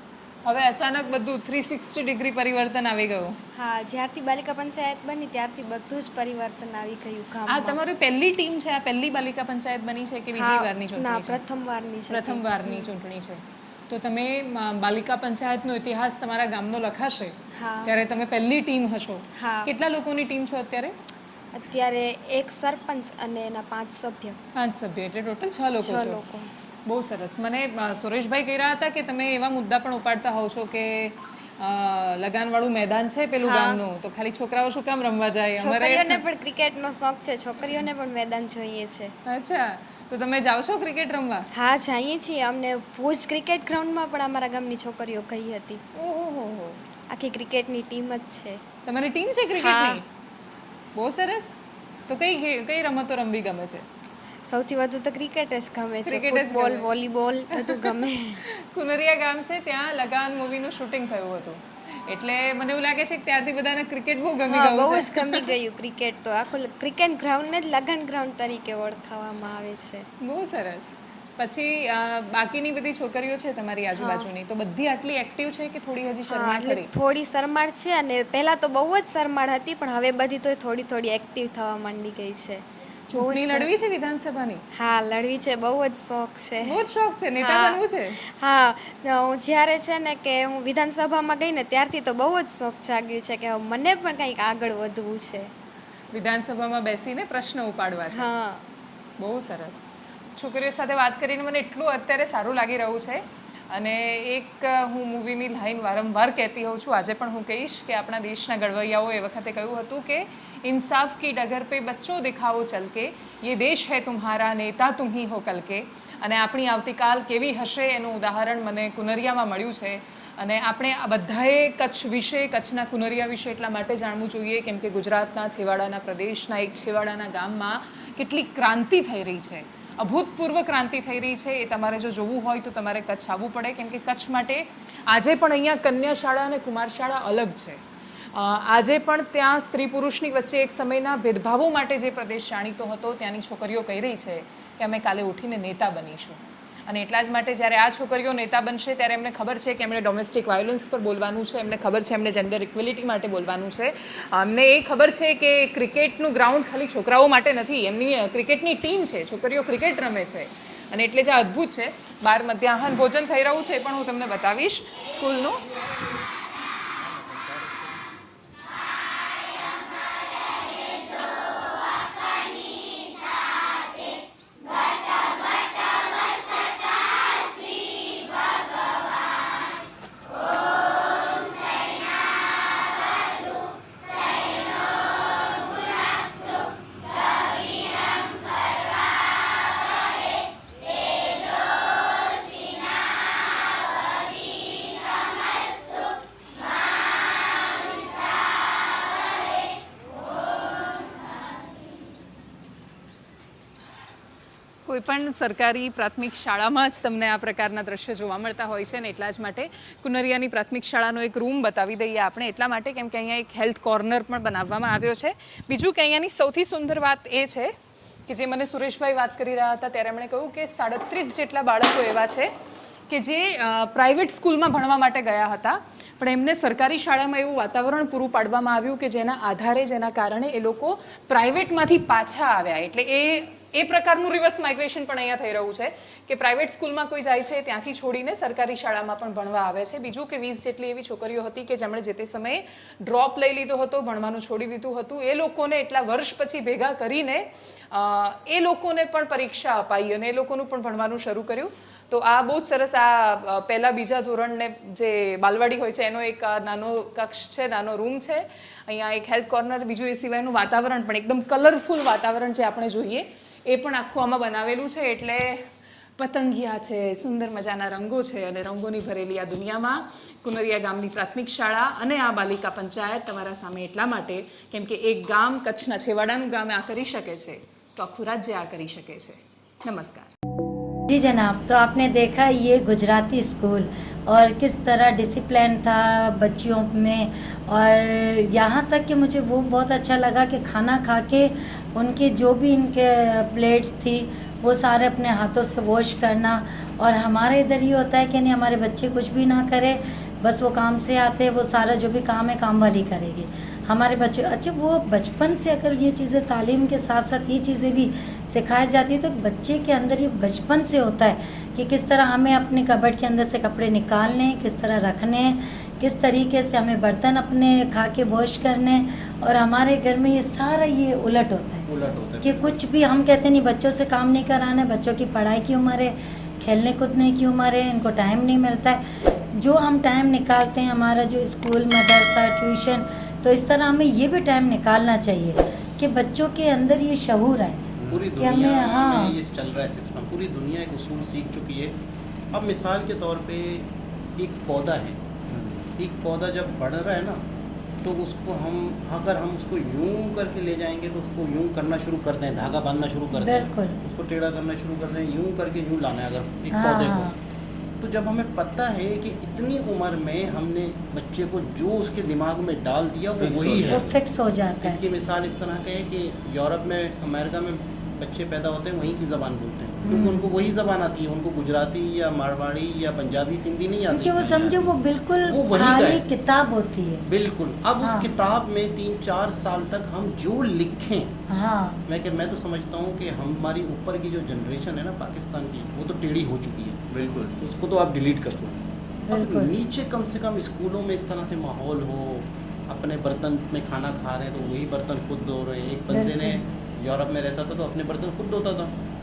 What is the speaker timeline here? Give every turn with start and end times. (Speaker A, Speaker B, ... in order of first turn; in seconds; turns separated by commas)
Speaker A: 0.4-3.3, Speaker B: 3.5-7.8, Speaker A: 7.5-11.4, Speaker B: 10.3-12.9, Speaker A: 12.1-17.3, Speaker B: 17.6-17.9, Speaker A: 17.9-20.9, Speaker B: 19.4-19.7, Speaker B: 21.5-24.4, Speaker A: 24.6-26.2, Speaker B: 25.8-26.5, Speaker A: 26.9-36.2, Speaker B: 33.4-33.8, Speaker B: 35.5-39.1, Speaker A: 39.3-41.5, Speaker B: 41.5-45.8, Speaker A: 46.0-46.8, Speaker B: 47.1-48.6, Speaker A: 48.9-50.0, Speaker B: 49.6-50.0, Speaker A: 50.9-51.6, Speaker A: 52.1-53.8, Speaker B: 54.5-58.4, Speaker A: 56.0-56.9, Speaker A: 58.7-65.4, Speaker B: 64.5-70.1, Speaker A: 70.2-76.9, Speaker B: 73.9-74.3, Speaker B: 76.3-83.7, Speaker A: 83.1-84.6, Speaker B: 84.7-86.8, Speaker A: 86.6-88.2, Speaker B: 87.4-95.5, Speaker A: 96.1-98.3, Speaker B: 98.1-98.7, Speaker A: 99.2-137.8, Speaker A: 138.3-165.6, Speaker A: 204.8-217.7, Speaker A: 218.3-222.5, Speaker A: 223.1-265.6, Speaker A: 266.2-280.3, Speaker C: 281.1-321.9, Speaker D: 321.9-322.8, Speaker C: 322.4-337.8, Speaker E: 338.0-338.3, Speaker D: 338.1-341.9, Speaker C: 338.4-339.4, Speaker D: 342.5-345.2, Speaker E: 345.5-345.9, Speaker D: 345.9-347.4, Speaker D: 348.0-357.3, Speaker C: 353.4-353.9, Speaker C: 356.7-357.4, Speaker D: 358.0-364.1, Speaker E: 363.4-364.1, Speaker C: 363.9-365.0, Speaker D: 364.8-374.5, Speaker C: 370.1-370.4, Speaker C: 374.1-377.3, Speaker E: 374.4-374.8, Speaker D: 375.5-376.2, Speaker D: 377.2-381.3, Speaker C: 378.0-378.3, Speaker C: 381.5-382.0, Speaker D: 382.1-387.0, Speaker E: 387.1-387.5, Speaker D: 387.6-388.8, Speaker C: 389.2-389.7, Speaker D: 389.3-398.9, Speaker C: 396.1-396.6